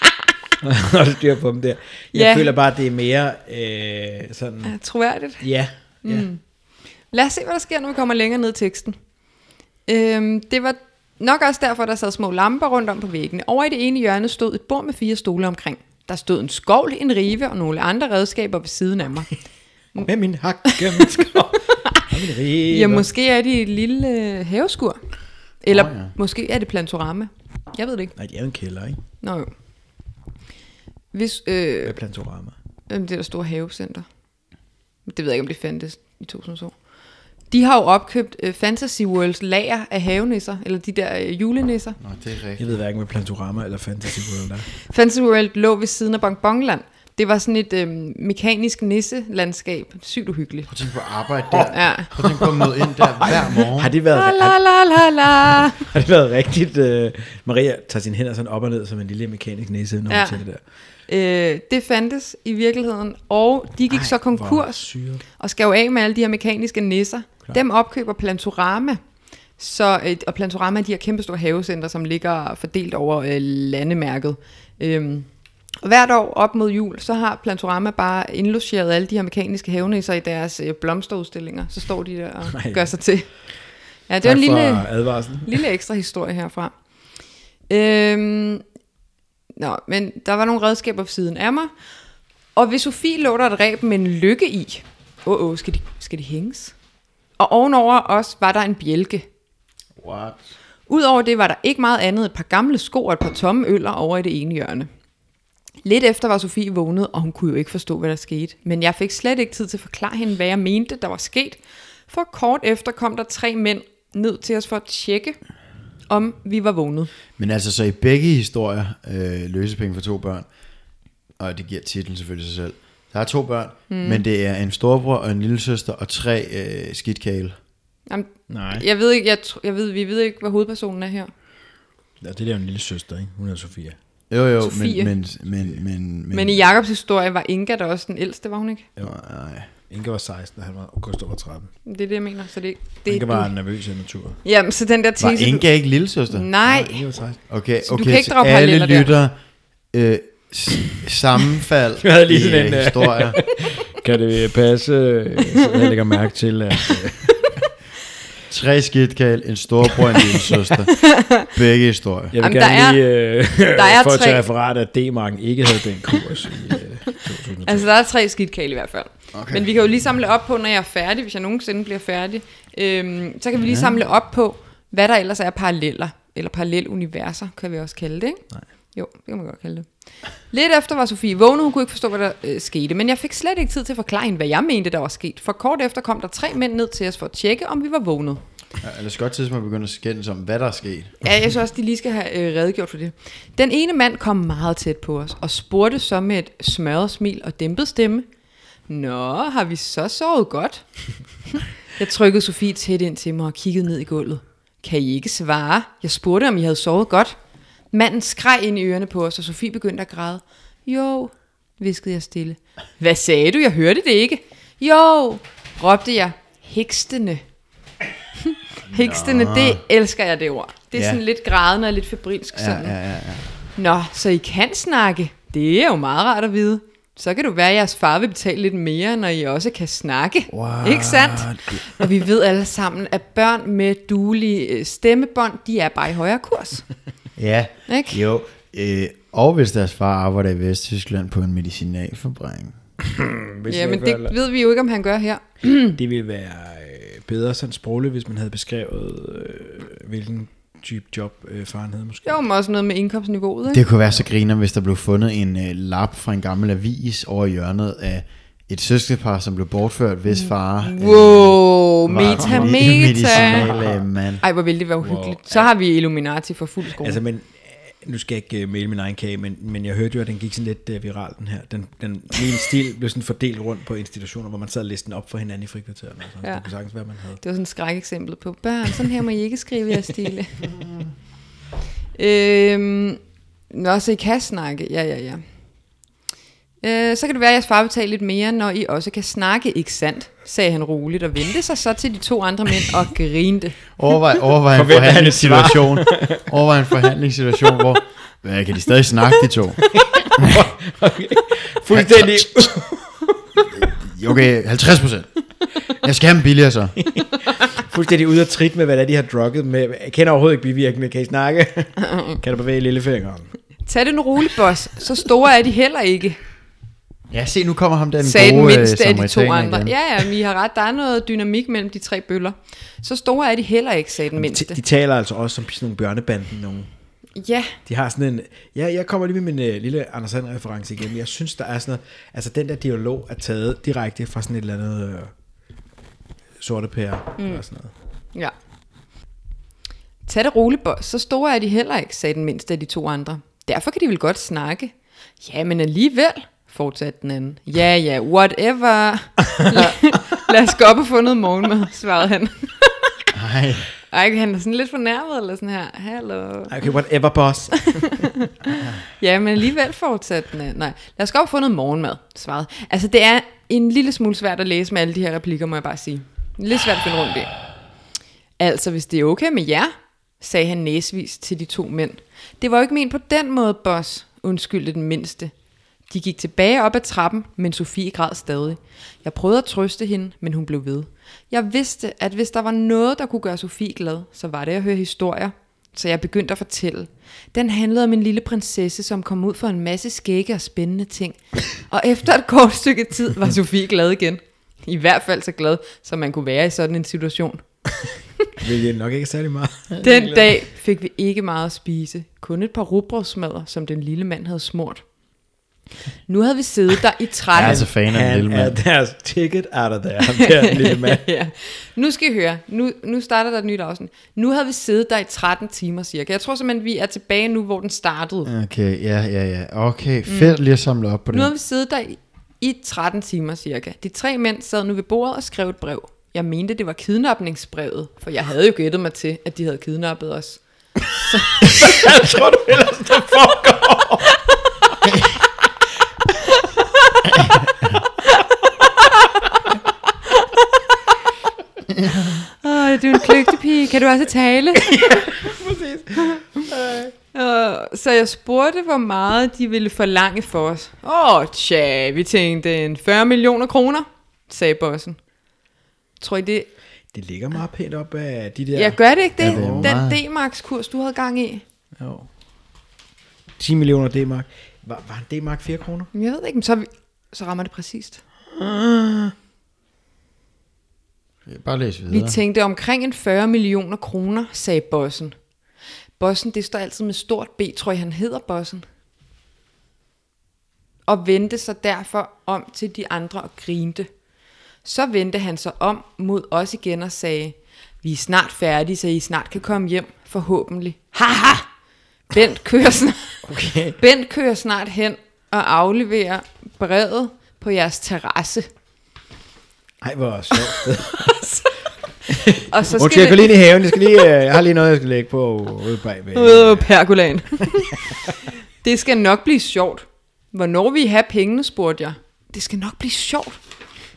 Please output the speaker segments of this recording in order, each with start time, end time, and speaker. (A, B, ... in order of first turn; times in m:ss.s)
0:00.6-0:04.7 A
0:02.1-0:02.5 B
0:04.6-0:05.4 B
0:05.4-0:06.3 A
0:06.0-0:06.4 B
0:07.1-0:09.0 B
0:09.9-0:19.3 B
0:20.0-0:23.1 A
0:20.6-0:21.3 B
0:22.7-0:25.0 B
0:25.6-0:28.1 B
0:25.7-0:26.1 C
0:28.2-0:29.0 A
0:29.2-0:29.5 B
0:31.1-0:31.9 B
0:31.8-0:32.6 A
0:32.9-0:34.0 B
0:35.0-0:36.7 B
0:37.5-0:42.0 B
0:42.0-0:42.7 C
0:42.6-0:44.7 A
0:44.9-0:50.7 B
0:50.7-0:53.9 C
0:51.5-0:54.6 A
0:51.7-0:52.1 B
0:54.1-0:55.8 B
0:55.5-1:00.6 A
1:00.1-1:00.4 B
1:01.1-1:09.0 B
1:03.9-1:05.2 A
1:09.6-1:15.3 B
1:15.8-1:23.3 B
1:22.5-1:22.9 A
1:24.1-1:24.9 B
1:24.2-1:25.6 A
1:25.4-1:26.7 B
1:27.7-1:28.6 B
1:29.6-1:31.7 B
1:32.6-1:36.7 B
1:37.4-1:39.2 B
1:40.0-1:40.4 C
1:40.9-1:44.9 B
1:45.8-1:55.4 B
1:56.1-1:57.1 B
1:57.4-2:00.5 C
2:01.4-2:07.5 C
2:03.9-2:04.2 B
2:08.1-2:11.3 B
2:08.5-2:08.8 A
2:12.2-2:14.0 A
2:14.3-2:16.6 C
2:14.6-2:15.1 B
2:16.3-2:18.9 B
2:19.0-2:19.7 C
2:19.8-2:21.7 A
2:21.8-2:23.5 B
2:23.1-2:24.4 A
2:24.4-2:25.6 B
2:25.2-2:26.5 C
2:26.3-2:27.0 B
2:26.6-2:27.4 A
2:27.5-2:29.3 C
2:27.8-2:29.1 B
2:29.9-2:33.4 C
2:32.0-2:37.4 A
2:38.5-2:42.3 C
2:40.9-2:41.5 B
2:42.3-2:47.9 A
2:42.4-2:43.0 B
2:43.7-2:44.4 B
2:47.6-2:58.4 B
2:49.3-2:49.7 C
2:53.7-2:54.0 C
2:58.9-2:59.9 B
3:00.5-3:08.4 B
3:08.8-3:11.2 C
3:11.2-3:18.2 B
3:18.9-3:20.8 B
3:21.5-3:27.4 B
3:27.9-3:37.4 B
3:38.4-3:42.9 B
3:38.9-3:39.8 C
3:40.9-3:41.2 C
3:42.5-3:43.5 C
3:43.7-3:56.8 B
3:50.5-3:51.7 C
3:57.4-4:02.8 C
3:57.9-3:58.2 B
4:03.0-4:04.3 A
4:03.7-4:05.9 B
4:05.9-4:12.4 A
4:12.2-4:13.8 B
4:13.7-4:24.4 C
4:20.3-4:23.7 B
4:22.3-4:22.8 A
4:23.3-4:24.1 A
4:24.4-4:27.2 B
4:25.0-4:25.7 A
4:27.0-4:37.4 A
4:37.4-4:40.7 B
4:42.1-4:45.4 B
4:46.8-4:53.8 B
4:53.9-5:00.6 C
4:54.7-4:56.5 A
4:59.9-5:03.3 A
5:01.9-5:02.7 C
5:03.6-5:07.0 C
5:07.0-5:13.5 A
5:12.0-5:12.4 B
5:13.8-5:16.4 B
5:17.3-5:20.0 C
5:18.2-5:24.8 B
5:24.4-5:26.9 A
5:27.4-5:27.8 B
5:27.8-5:35.3 A
5:36.6-5:37.9 A
5:37.4-5:37.6 B
5:40.2-5:53.3 B
5:49.6-5:49.9 A
5:53.3-5:53.9 C
5:54.1-5:56.8 B
5:56.7-5:58.2 A
5:57.8-6:07.5 B
6:08.6-6:15.5 B
6:16.1-6:38.0 B
6:38.6-6:40.4 A
6:40.0-6:45.0 B
6:46.3-6:47.8 B
6:47.5-6:48.8 C
6:47.6-6:51.2 A
6:50.4-6:58.5 B
6:58.4-7:01.5 C
7:00.3-7:00.6 B
7:01.3-7:10.6 B
7:11.6-7:14.4 A
7:20.3-7:20.6 B
7:22.4-7:25.3 B
7:25.0-7:27.1 A
7:27.3-7:35.2 B
7:36.2-7:36.7 B
7:37.1-7:39.9 A
7:38.7-7:41.6 B
7:39.4-7:40.2 C
7:42.0-7:42.3 A
7:43.6-7:46.1 A
7:46.1-7:48.2 B
7:48.5-7:49.3 A
7:51.5-7:52.4 C
7:52.1-7:55.3 B
7:56.2-7:58.8 B
8:01.0-8:04.1 B
8:04.8-8:11.7 B
8:12.3-8:18.7 B
8:13.4-8:14.0 A
8:20.0-8:21.4 A
8:20.6-8:21.7 B
8:22.3-8:23.9 B
8:22.3-8:26.9 A
8:26.3-8:28.0 B
8:28.8-8:33.6 B